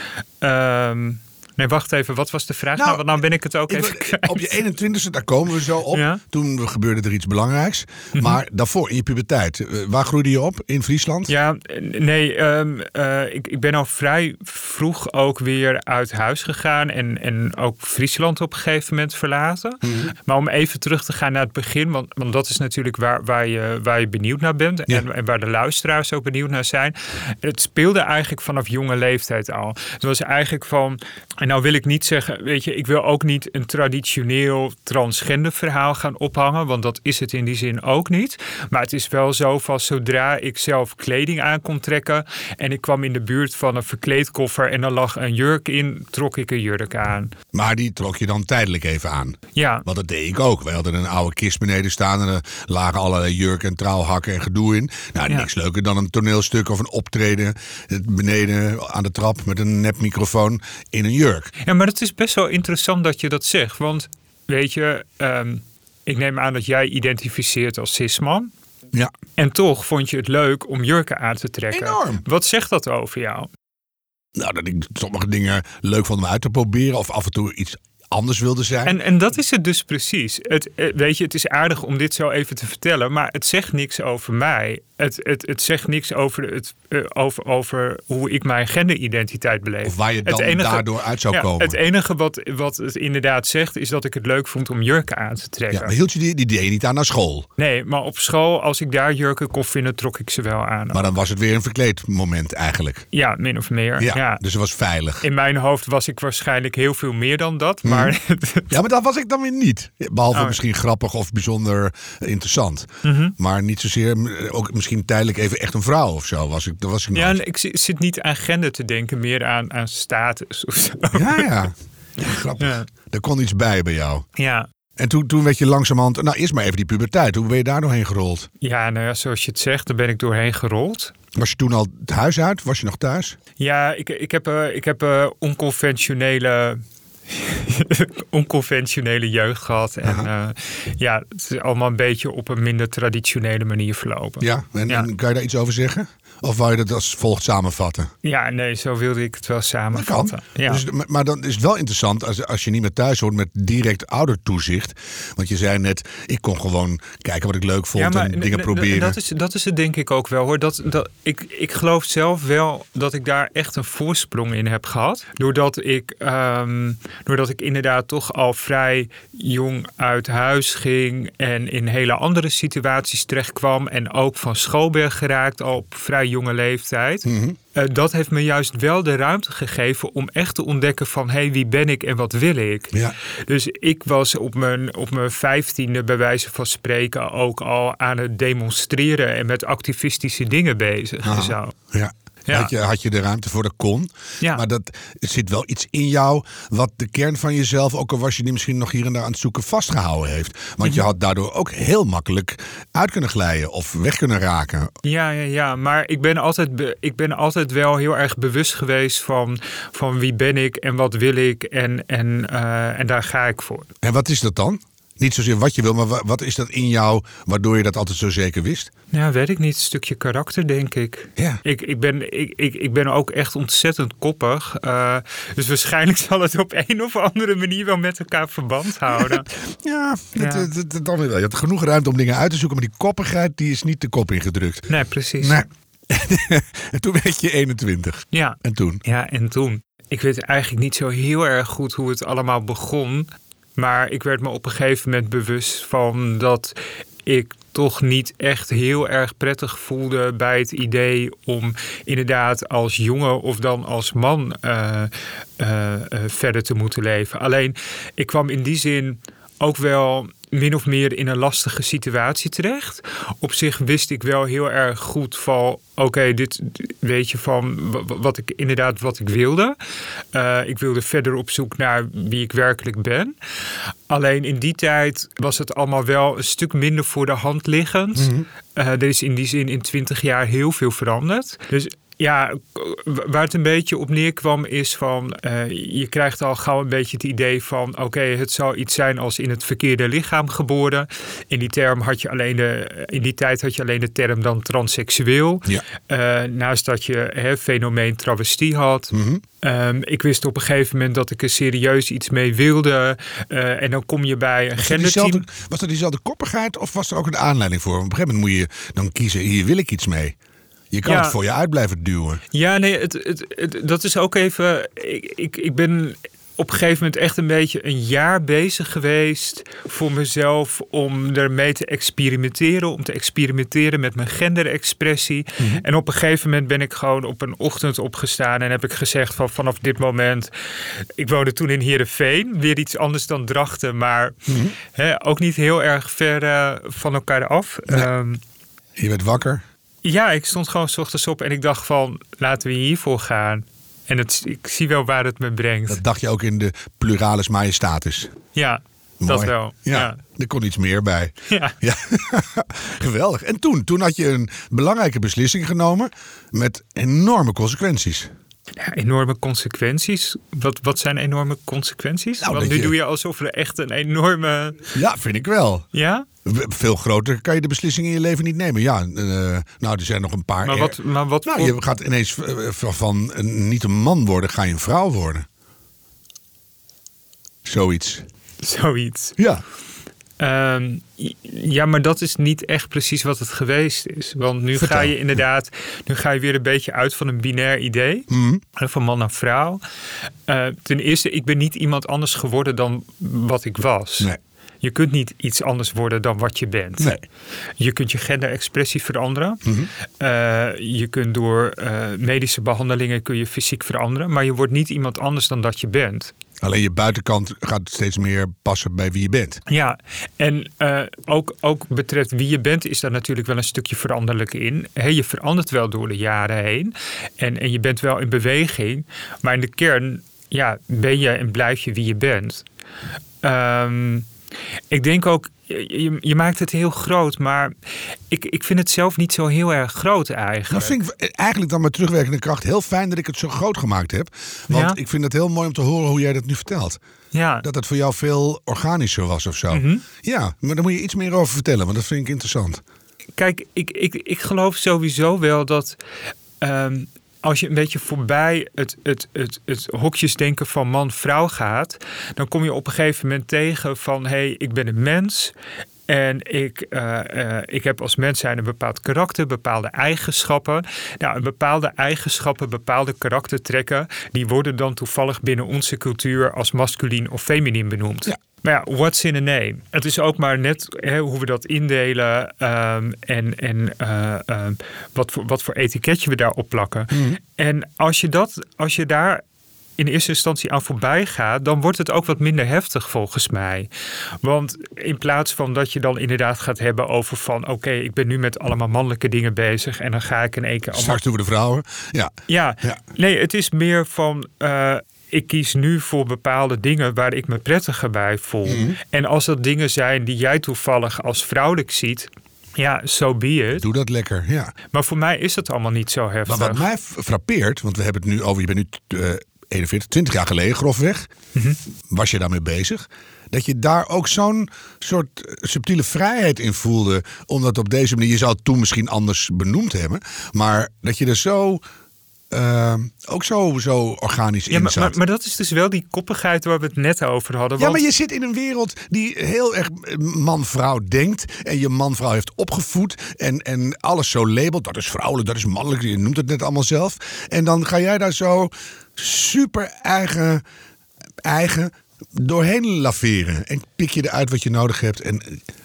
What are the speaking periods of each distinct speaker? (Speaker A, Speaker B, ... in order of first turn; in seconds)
Speaker A: 0.4-4.6, 5.9-6.2, 11.3-47.3, 49.5-49.9, 61.6-68.5, 69.4-73.5, 78.8-95.9, 97.6-101.1, 103.1-104.4, 105.2-108.7, 110.3-110.6, 113.0-113.3, 117.1-121.5, 122.6-122.9, 124.4-124.7, 128.6-131.1, 133.6-145.1, 148.2-150.8, 157.9-191.7, 192.5-192.7, 205.0-213.9, 219.1-229.5, 230.4-230.7, 234.9-235.6, 238.3-269.8, 270.3-273.4, 274.1-305.4, 311.0-311.4, 312.5-330.5, 331.2-338.4, 340.0-346.0, 348.5-350.2, 351.5-351.8, 358.8-364.9, 365.9-366.2, 370.6-371.8, 378.6-379.4, 380.4-389.8, 390.5-394.3, 394.8-397.2, 397.8-399.6, 400.2-406.3, 409.7-422.6, 423.4-424.3, 424.9-427.7, 428.3-431.0, 434.7-435.0, 437.3-437.6, 439.7-440.0, 443.4-446.0, 446.6-455.5, 456.1-479.4, 480.0-483.9, 484.4-491.2, 492.5-503.9, 504.9-506.9, 524.7-528.0
Speaker B: 2.8-3.1, 3.7-11.3, 19.8-20.1, 47.5-61.5, 71.7-72.2, 74.3-79.0, 89.8-91.8, 95.7-97.5, 100.9-103.0, 104.0-105.2, 107.8-108.1, 108.7-117.4, 121.1-124.2, 125.0-128.5, 131.3-133.4, 144.4-148.1, 149.9-159.2, 177.2-177.6, 191.2-204.9, 214.0-218.9, 221.4-221.6, 229.1-234.9, 235.4-239.0, 278.2-278.4, 299.1-299.4, 304.8-310.4, 310.9-312.4, 334.5-334.7, 338.9-339.6, 345.9-348.3, 349.2-358.3, 362.4-362.9, 364.9-365.9, 366.4-375.5, 377.6-378.2, 384.8-385.1, 388.3-388.6, 399.6-399.9, 406.6-409.6, 430.7-437.0, 437.6-442.8, 477.1-477.4, 490.9-492.3, 498.6-499.0, 503.8-504.7, 506.5-511.3, 512.1-521.8, 522.5-525.1, 527.8-540.6, 541.4-545.6